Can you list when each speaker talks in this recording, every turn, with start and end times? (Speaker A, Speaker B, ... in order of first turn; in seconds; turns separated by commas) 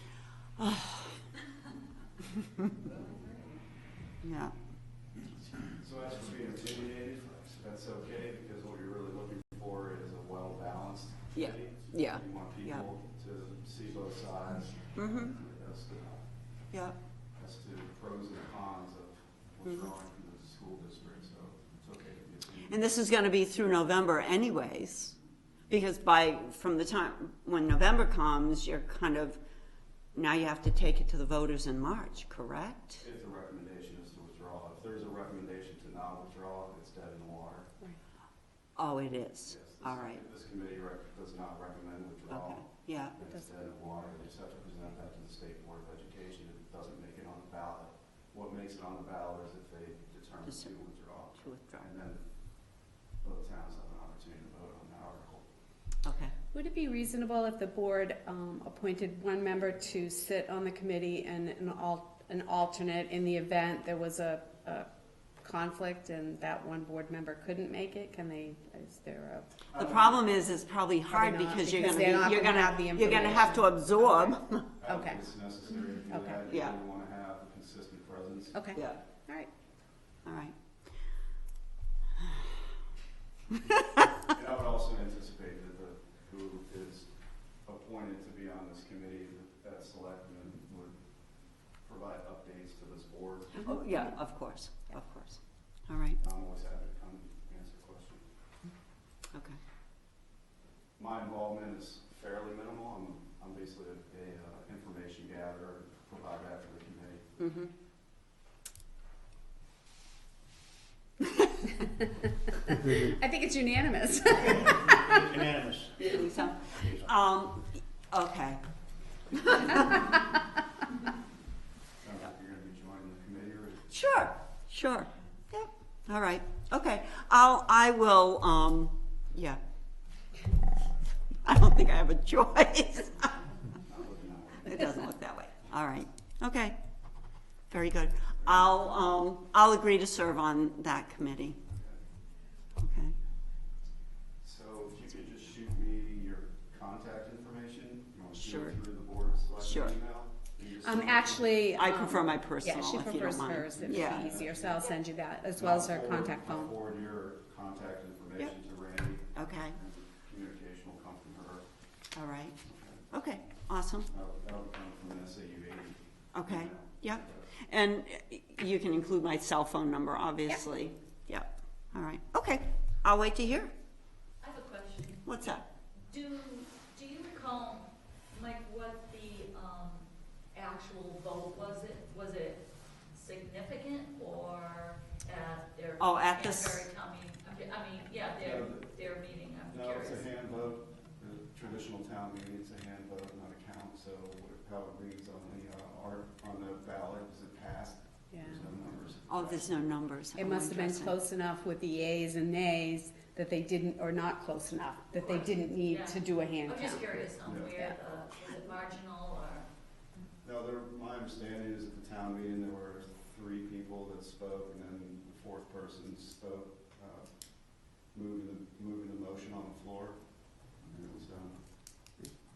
Speaker A: 0.6-1.2, Speaker B: 3.0-3.3, Speaker A: 4.2-4.5, Speaker C: 5.8-16.2, Speaker A: 11.3-12.9, Speaker A: 14.9-15.3, Speaker C: 17.4-22.8, Speaker A: 22.7-25.1, Speaker A: 25.7-29.4, Speaker A: 30.1-33.0, Speaker C: 33.0-37.7, Speaker A: 38.8-40.2, Speaker C: 39.5-52.2, Speaker A: 42.3-43.1, Speaker A: 50.5-50.7, Speaker A: 51.4-51.9, Speaker C: 53.2-55.4, Speaker A: 56.0-56.3, Speaker D: 56.5-64.9, Speaker D: 65.4-69.5, Speaker C: 69.7-70.3, Speaker A: 69.8-74.7, Speaker D: 71.1-75.2, Speaker C: 73.1-73.5, Speaker C: 74.8-78.6, Speaker D: 76.1-76.5, Speaker D: 78.5-79.5, Speaker A: 80.2-80.5, Speaker C: 84.3-87.1, Speaker C: 87.6-91.0, Speaker C: 91.8-93.7, Speaker A: 93.6-96.2, Speaker C: 96.2-98.2, Speaker A: 99.3-99.6, Speaker C: 101.0-107.2, Speaker A: 107.4-107.7, Speaker D: 112.8-115.3, Speaker E: 114.3-117.1, Speaker A: 116.0-118.6, Speaker A: 119.4-119.9, Speaker C: 122.0-123.8, Speaker A: 123.9-129.6, Speaker A: 131.4-133.5, Speaker C: 133.8-135.1, Speaker A: 134.6-136.8, Speaker A: 137.7-141.6, Speaker C: 138.4-139.2, Speaker A: 142.8-143.1, Speaker C: 144.4-151.6, Speaker A: 148.3-148.8, Speaker A: 149.6-150.0, Speaker D: 150.8-156.7, Speaker A: 151.7-154.3, Speaker C: 153.5-154.8, Speaker C: 155.6-161.6, Speaker A: 159.3-159.8, Speaker A: 162.1-162.6, Speaker C: 162.6-163.1, Speaker A: 163.1-164.1, Speaker C: 164.1-167.5, Speaker A: 166.3-173.7, Speaker B: 174.4-175.2, Speaker A: 175.2-175.6, Speaker B: 176.0-190.3, Speaker A: 186.0-186.9, Speaker C: 188.4-189.0, Speaker C: 189.7-199.7, Speaker D: 198.3-198.6, Speaker A: 199.3-201.2, Speaker D: 200.3-207.2, Speaker B: 205.1-209.7, Speaker C: 207.4-207.7, Speaker C: 210.4-222.2